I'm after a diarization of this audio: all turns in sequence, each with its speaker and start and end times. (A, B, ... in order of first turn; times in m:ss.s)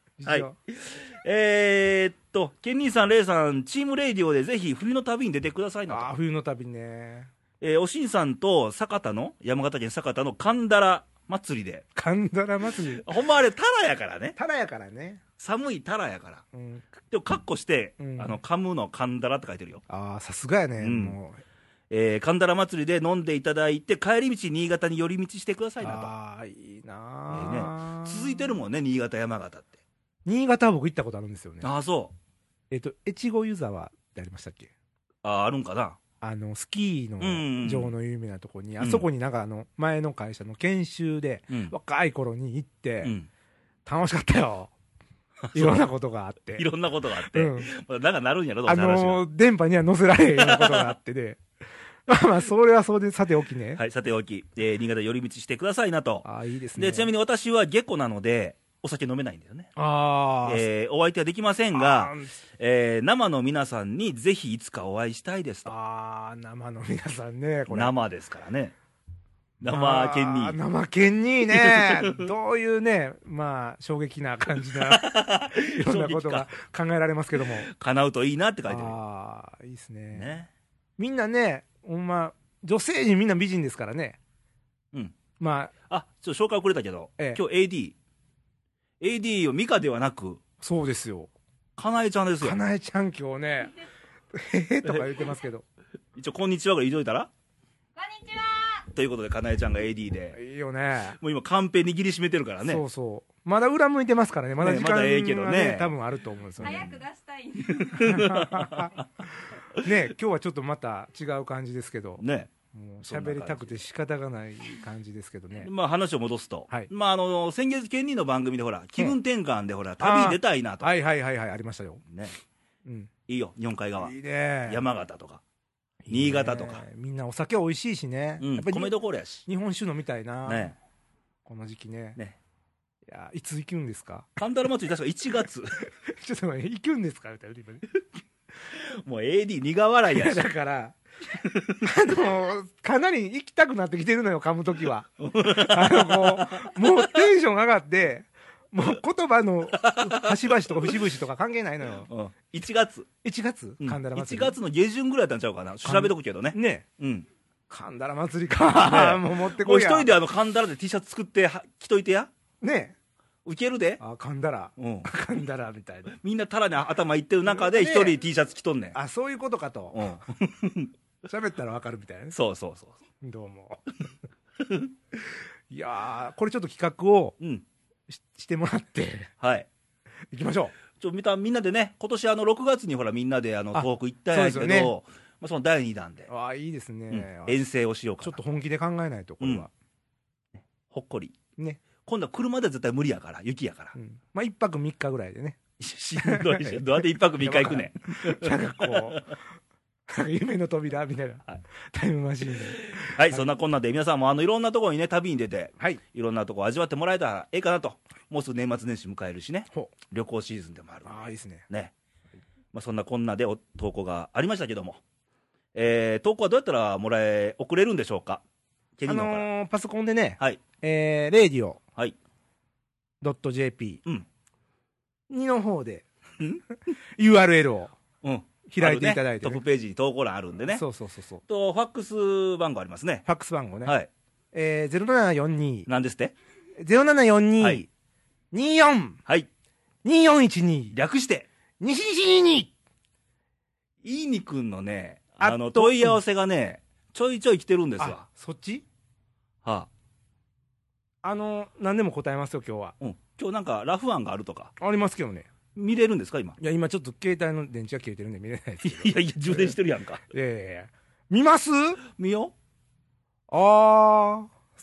0:00.2-0:00.5 A
0:00.2-0:06.1 B
0:05.9-0:07.3 A
0:07.6-0:11.8 B
0:11.9-0:13.1 A
0:12.9-0:14.4 B
0:14.4-0:15.2 A
0:15.4-0:16.4 B
0:16.5-0:16.8 A
0:16.9-0:19.8 B
0:18.0-0:18.4 A
0:19.9-0:21.4 A
0:20.8-0:21.2 B
0:21.9-0:26.1 B
0:25.8-0:28.6 A
0:27.3-0:29.8 B
0:30.2-0:31.7 A
0:31.6-0:32.1 B
0:32.7-0:34.7 A
0:35.2-0:36.0 B
0:36.2-0:43.1 A
0:37.2-0:37.9 B
0:38.8-0:39.1 B
0:43.0-0:43.3 B
0:43.8-0:44.7 A
0:45.4-0:45.8 B
0:45.5-0:46.7 A
0:46.6-0:49.2 B
0:47.2-0:47.7 A
0:48.6-0:51.4 A
0:50.4-0:51.0 B
0:52.1-0:53.8 A
0:53.8-0:56.2 B
0:56.2-0:57.1 A
0:56.8-0:59.7 B
0:59.8-1:00.6 A
1:00.4-1:05.7 B
1:01.7-1:02.3 A
1:05.6-1:07.9 A
1:07.7-1:08.7 B
1:09.6-1:10.6 B
1:09.6-1:17.7 A
1:11.5-1:12.3 B
1:14.6-1:16.5 B
1:17.4-1:19.0 B
1:18.7-1:20.3 A
1:20.1-1:20.5 B
1:21.0-1:24.2 A
1:25.4-1:25.7 A
1:25.9-1:28.0 B
1:29.0-1:30.4 B
1:30.6-1:31.3 A
1:31.8-1:32.6 B
1:32.4-1:33.7 A
1:34.3-1:35.6 A
1:36.2-1:37.3 B
1:38.0-1:38.9 C
1:38.9-1:40.4 B
1:40.3-1:41.2 A
1:41.2-1:42.8 B
1:42.6-1:46.9 A
1:44.6-1:45.9 B
1:46.6-1:47.0 B
1:46.6-1:48.2 C
1:47.7-1:49.0 B
1:47.9-1:55.7 A
1:52.2-1:52.5 B
1:53.0-1:53.8 B
1:55.6-2:00.9 B
2:00.0-2:02.0 A
2:02.1-2:02.3 B
2:02.8-2:03.1 A
2:03.3-2:04.1 B
2:04.0-2:04.8 A
2:04.6-2:05.4 B
2:06.0-2:08.9 A
2:06.1-2:06.8 B
2:08.4-2:09.4 B
2:09.4-2:10.7 A
2:10.4-2:10.7 B
2:11.4-2:12.2 A
2:13.1-2:14.3 A
2:14.4-2:15.8 B
2:16.1-2:17.9 A
2:18.7-2:20.4 B
2:20.1-2:21.0 A
2:21.4-2:21.8 B
2:21.8-2:32.1 A
2:25.2-2:27.2 B
2:29.7-2:31.0 B
2:32.1-2:33.1 B
2:33.2-2:34.6 A
2:33.8-2:37.3 B
2:35.8-2:36.8 A
2:37.7-2:40.1 A
2:38.8-2:42.3 B
2:42.6-2:43.0 A
2:43.4-2:44.0 B
2:44.0-2:46.2 A
2:44.8-2:45.1 B
2:46.1-2:49.0 B
2:47.4-2:48.2 A
2:48.9-2:50.2 A
2:49.9-2:50.9 B
2:51.2-2:52.4 A
2:52.3-2:53.0 B
2:53.2-2:53.9 A
2:55.7-2:57.4 A
2:58.1-2:59.3 A
2:59.4-2:59.7 B
3:00.3-3:00.7 A
3:01.0-3:06.3 B
3:03.7-3:04.9 A
3:06.3-3:07.6 A
3:07.1-3:08.4 B
3:08.2-3:09.7 A
3:09.4-3:09.7 B
3:10.6-3:11.4 B
3:12.0-3:13.9 B
3:13.9-3:15.6 A
3:15.8-3:19.2 B
3:16.2-3:16.8 A
3:17.4-3:19.4 A
3:20.1-3:23.4 A
3:22.8-3:31.9 B
3:31.0-3:31.7 A
3:32.7-3:35.0 B
3:35.7-3:38.4 B
3:39.0-3:39.5 B
3:39.0-3:41.8 A
3:43.2-3:44.0 A
3:45.3-3:46.1 A
3:47.2-3:47.9 A
3:48.2-3:50.8 B
3:48.7-3:49.6 A
3:50.7-3:51.4 A
3:51.5-3:53.2 B
3:53.2-3:53.9 A
3:54.5-3:55.9 A
3:55.9-3:56.3 B
3:56.8-3:57.9 A
3:58.5-3:59.2 A
4:00.0-4:01.0 A
4:00.9-4:01.5 B
4:01.8-4:02.7 A
4:04.0-4:08.2 B
4:05.4-4:06.2 A
4:08.0-4:08.8 A
4:09.6-4:09.9 B
4:11.2-4:13.0 A
4:13.0-4:14.7 B
4:14.8-4:15.5 A
4:15.8-4:16.6 B
4:16.6-4:19.8 A
4:18.8-4:20.2 B
4:20.3-4:22.0 A
4:22.2-4:22.5 B
4:23.5-4:24.5 A